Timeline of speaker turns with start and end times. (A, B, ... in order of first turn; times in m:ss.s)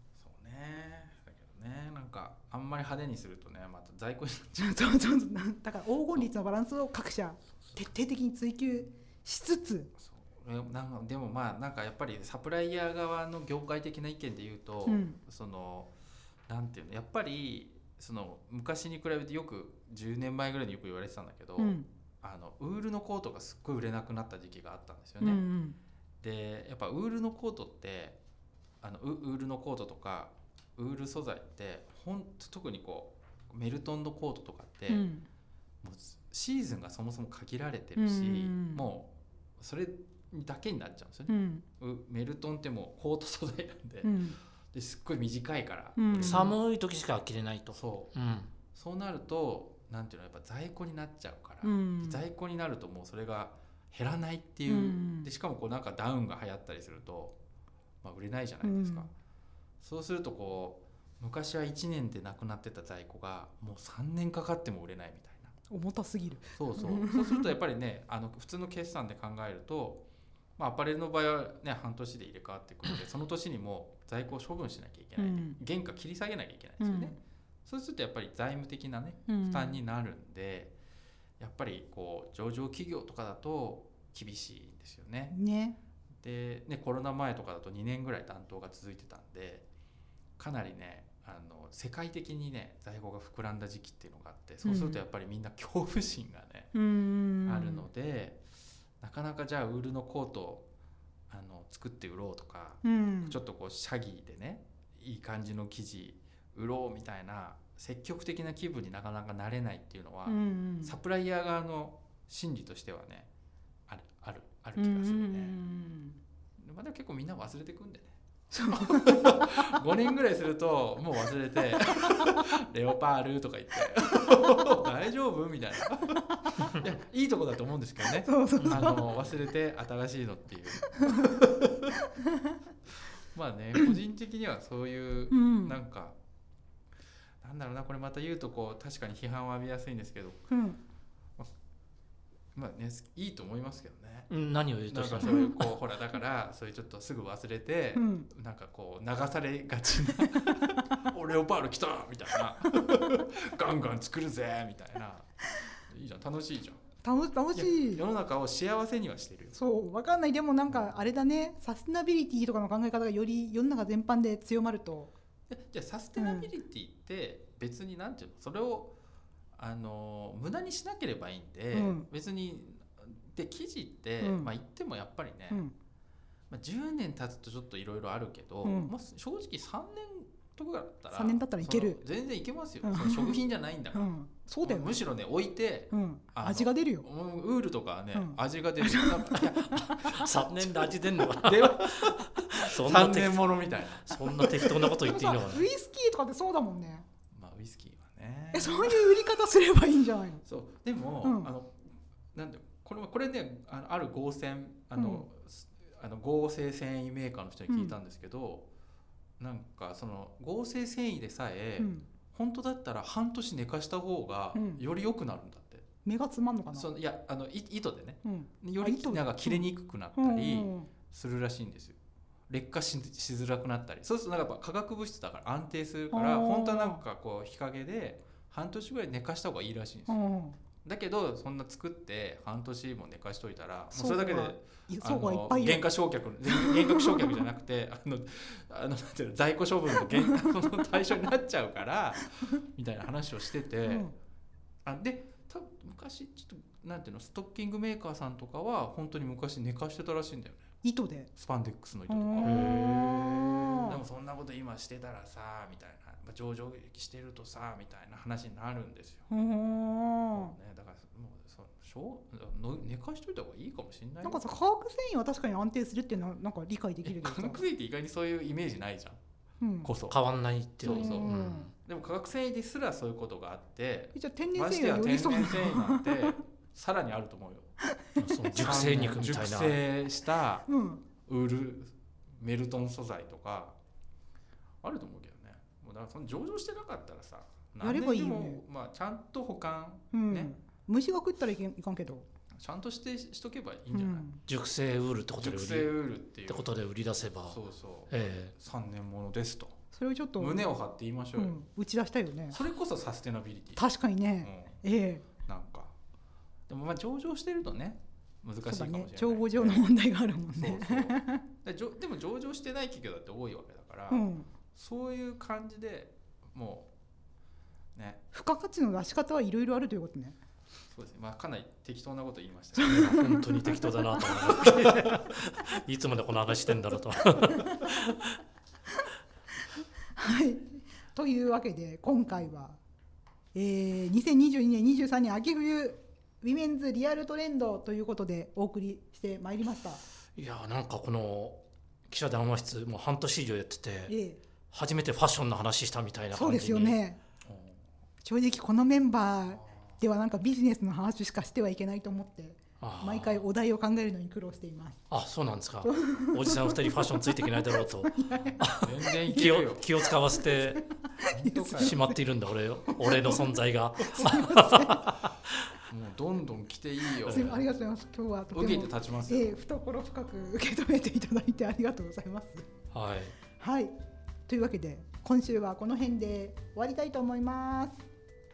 0:00.2-0:04.8 A
0:04.6-0:09.9 B
0:10.0-0:15.9 A
0:14.8-0:15.2 B
0:16.5-0:25.4 A
0:21.6-0:21.9 B
0:25.2-0:25.8 B
0:26.2-0:28.2 A
0:28.8-0:35.0 A
0:34.9-0:35.2 B
0:35.8-0:44.2 A
0:38.0-0:38.8 B
0:41.3-0:41.6 B
0:44.0-0:44.4 B
0:44.7-0:46.5 A
0:46.0-0:46.5 B
0:46.2-0:48.5 C
0:47.7-0:48.1 A
0:48.7-0:57.4 A
0:51.6-0:52.2 B
0:54.7-0:55.3 B
0:58.0-0:59.1 A
0:58.6-0:59.1 B
0:59.8-1:05.5 A
1:05.7-1:07.5 B
1:06.5-1:10.0 A
1:10.6-1:20.7 A
1:15.2-1:15.6 B
1:16.8-1:17.2 B
1:19.3-1:19.8 B
1:21.4-1:25.3 A
1:25.3-1:25.8 B
1:26.2-1:29.6 A
1:30.4-1:36.7 A
1:34.6-1:35.0 B
1:36.7-1:37.8 B
1:37.4-1:38.4 A
1:39.0-1:40.6 A
1:41.3-1:53.3 A
1:42.8-1:43.4 B
1:50.2-1:50.9 B
1:53.9-1:55.5 A
1:54.8-1:56.2 B
1:56.6-1:58.1 A
1:58.5-1:59.9 B
1:58.7-2:11.9 A
2:01.9-2:02.3 B
2:04.3-2:04.5 B
2:06.2-2:06.7 B
2:08.2-2:09.1 B
2:08.6-2:08.9 C
2:10.8-2:11.4 B
2:12.2-2:12.5 B
2:13.3-2:16.1 A
2:15.3-2:15.8 B
2:17.4-2:20.5 A
2:20.5-2:20.8 B
2:22.5-2:24.3 A
2:24.3-2:25.7 C
2:24.9-2:36.8 A
2:25.2-2:25.6 B
2:27.9-2:28.3 B
2:37.0-2:38.0 B
2:37.5-2:39.6 A
2:39.5-2:45.1 B
2:45.5-2:48.9 A
2:46.2-2:46.5 B
2:49.5-2:55.6 A
2:51.7-2:52.1 B
2:54.2-2:54.5 B
2:56.5-3:14.4 A
2:58.6-2:58.9 B
3:01.1-3:02.0 B
3:02.8-3:03.4 B
3:03.9-3:05.0 B
3:05.9-3:07.0 B
3:08.1-3:10.2 B
3:10.1-3:15.7 C
3:14.2-3:17.0 B
3:17.3-3:19.3 A
3:18.5-3:20.4 B
3:20.4-3:28.7 A
3:21.2-3:21.5 B
3:24.9-3:25.2 B
3:27.7-3:27.9 B
3:29.4-3:35.8 A
3:31.8-3:32.1 B
3:34.5-3:34.8 B
3:36.0-3:36.9 B
3:36.7-3:42.0 A
3:38.2-3:39.6 B
3:40.2-3:40.9 B
3:42.5-3:50.3 A
3:46.1-3:47.0 B
3:50.1-3:50.6 B
3:50.8-4:04.1 A
3:53.9-3:55.9 B
3:56.4-3:57.4 B
3:59.9-4:00.4 B
4:03.8-4:04.1 B
4:04.8-4:10.7 A
4:10.8-4:11.3 B
4:11.4-4:19.3 A
4:12.1-4:14.0 B
4:12.4-4:13.2 C
4:19.3-4:20.5 B
4:20.3-4:24.4 A
4:24.2-4:27.6 B
4:27.0-4:29.2 A
4:29.6-4:29.9 B
4:29.8-4:30.2 A
4:30.1-4:31.7 C
4:30.8-4:37.7 A
4:30.8-4:31.7 B
4:34.1-4:36.4 B
4:37.9-4:38.6 B
4:38.2-4:39.8 C
4:38.6-4:40.7 A
4:40.6-4:41.0 B
4:41.2-4:43.7 A
4:44.8-4:50.5 A
4:47.8-4:48.6 B
4:50.1-4:52.3 B
4:52.6-4:54.3 A
4:53.9-4:54.4 B
4:54.5-4:55.9 C
4:55.4-4:56.7 A
4:56.5-4:58.5 C
4:57.5-4:59.8 A
4:59.9-5:00.6 B
5:00.4-5:01.6 A
5:01.4-5:02.6 B
5:02.5-5:03.8 A
5:03.8-5:05.3 B
5:04.4-5:05.9 A
5:06.7-5:09.9 A
5:08.6-5:11.4 B
5:10.5-5:14.2 A
5:14.1-5:14.5 B
5:14.7-5:16.9 A
5:17.9-5:18.2 A
5:18.3-5:20.4 B
5:20.9-5:23.4 A
5:22.8-5:24.5 B
5:22.9-5:28.4 C
5:27.5-5:27.8 B
5:30.2-5:32.8 B
5:33.5-5:40.0 B
5:40.3-5:44.1 C
5:44.1-5:44.4 B
5:44.7-5:47.0 C
5:46.3-5:47.2 B
5:47.4-5:47.8 A
5:48.2-5:55.0 B
5:49.5-5:49.9 A
5:52.8-5:53.4 C
5:55.1-6:00.8 C
5:55.8-5:59.6 B
5:58.7-6:00.0 A
6:00.1-6:02.2 B
6:01.3-6:02.0 A
6:01.7-6:05.7 C
6:02.8-6:05.2 B
6:05.8-6:07.6 A
6:07.2-6:12.7 B
6:07.2-6:07.6 C
6:08.5-6:09.6 A
6:12.9-6:13.4 C
6:13.6-6:14.0 B
6:14.5-6:18.0 B